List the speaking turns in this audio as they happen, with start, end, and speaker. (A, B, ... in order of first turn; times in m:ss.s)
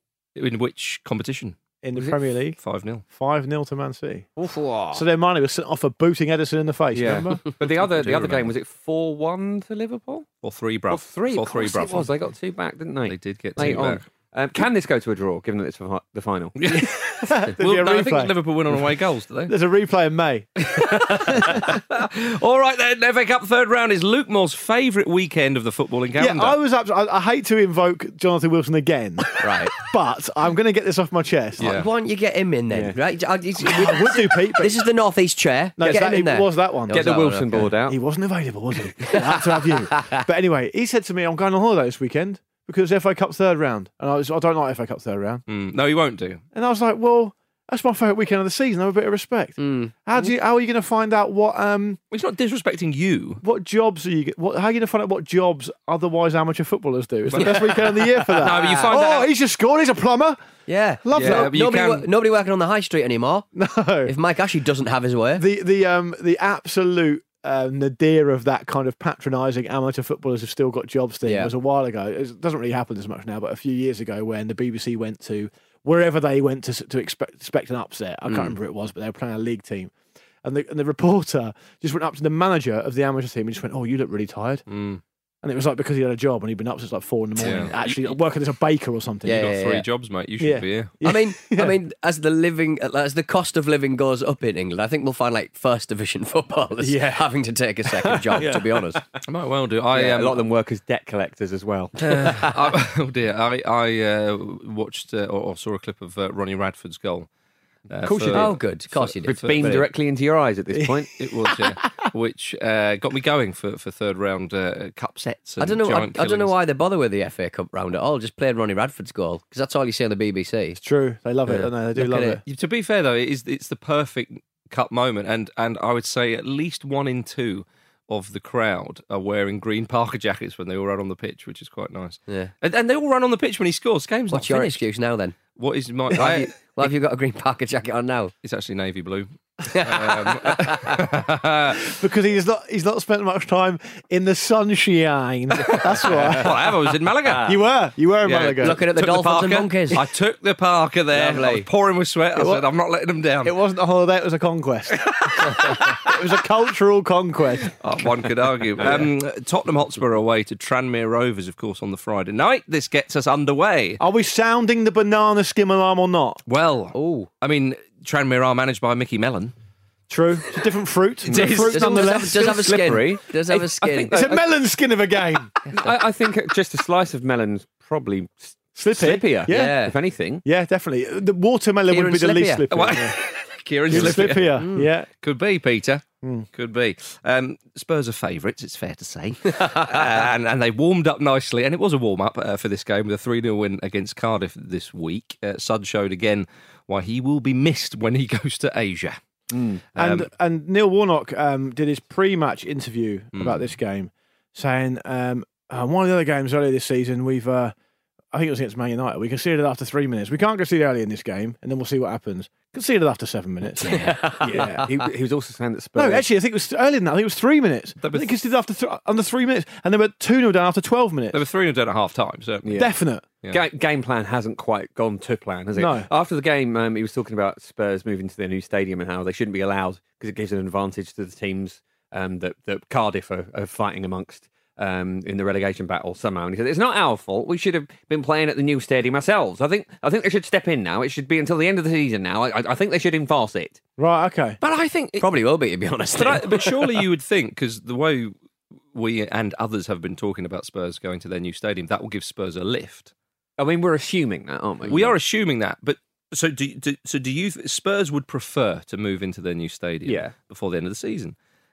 0:00.4-0:01.6 A
0:01.8-0:02.6 B
0:02.6-0:03.0 A
0:03.1-0:04.3 B
0:04.9-0:07.4 B
0:06.9-0:10.3 C
0:07.6-0:08.5 A
0:10.4-0:12.1 A
0:10.9-0:16.6 C
0:13.1-0:14.0 A
0:16.6-0:19.5 A
0:16.8-0:18.4 B
0:19.5-0:21.8 B
0:20.6-0:26.6 A
0:26.2-0:31.7 B
0:29.4-0:29.7 D
0:31.6-0:31.9 A
0:31.6-0:37.6 D
0:33.6-0:34.7 B
0:35.8-0:37.0 B
0:36.9-0:38.0 C
0:37.9-0:45.4 B
0:39.1-0:39.3 D
0:39.9-0:40.2 D
0:45.5-0:46.4 A
0:46.5-0:52.0 B
0:49.6-0:49.9 D
0:52.1-0:53.4 A
0:53.4-1:00.4 B
0:57.3-0:59.3 A
0:58.4-0:58.9 D
1:00.7-1:03.4 D
1:01.0-1:01.5 B
1:01.1-1:02.1 A
1:03.5-1:04.1 B
1:04.0-1:05.4 D
1:05.4-1:19.9 B
1:11.2-1:11.5 D
1:18.3-1:18.5 D
1:20.4-1:24.6 B
1:24.7-1:25.0 A
1:25.4-1:29.5 B
1:27.4-1:27.8 A
1:29.3-1:29.8 D
1:29.3-1:31.0 A
1:30.4-1:31.8 B
1:31.0-1:39.0 D
1:36.8-1:37.3 B
1:38.1-1:38.8 B
1:39.2-1:40.4 A
1:39.9-1:42.5 C
1:42.0-1:47.3 A
1:47.9-1:49.9 A
1:48.0-1:48.6 C
1:48.3-1:49.4 D
1:49.2-1:51.2 C
1:51.2-1:56.5 A
1:55.6-2:00.8 D
2:00.8-2:02.4 B
2:01.5-2:02.4 D
2:02.4-2:14.8 A
2:14.3-2:15.4 D
2:15.5-2:16.9 A
2:16.1-2:18.3 D
2:18.4-2:21.9 A
2:19.7-2:20.6 D
2:21.8-2:28.8 B
2:25.6-2:27.5 A
2:28.2-2:33.6 A
2:28.6-2:30.0 D
2:31.1-2:31.7 D
2:32.3-2:32.7 B
2:33.4-2:37.7 B
2:35.1-2:35.9 A
2:37.7-2:44.0 A
2:44.0-2:46.4 B
2:46.5-2:49.5 A
2:46.9-2:47.3 D
2:50.1-2:52.6 B
2:51.3-2:51.8 A
2:51.4-2:54.4 D
2:51.4-2:54.3 C
2:54.1-2:55.5 B
2:55.7-3:00.4 C
2:58.8-2:59.8 B
2:59.5-2:59.9 D
3:00.4-3:03.2 B
3:01.9-3:02.6 D
3:02.7-3:04.6 A
3:03.9-3:05.1 B
3:04.6-3:04.9 D
3:05.2-3:19.2 A
3:19.5-3:19.8 C
3:19.9-3:20.3 A
3:20.0-3:27.7 B
3:23.3-3:23.6 A
3:28.3-3:34.8 B
3:33.8-3:35.1 D
3:34.4-3:36.2 C
3:36.0-3:41.4 B
3:38.0-3:38.3 A
3:41.3-3:42.9 A
3:42.6-3:42.9 C
3:42.7-3:43.2 B
3:43.5-4:03.8 C
3:45.7-3:46.1 B
4:04.0-4:04.6 B
4:04.6-4:05.3 A
4:05.2-4:06.9 D
4:06.2-4:08.3 A
4:08.9-4:13.1 A
4:13.6-4:15.2 C
4:14.9-4:21.4 A
4:20.0-4:20.3 C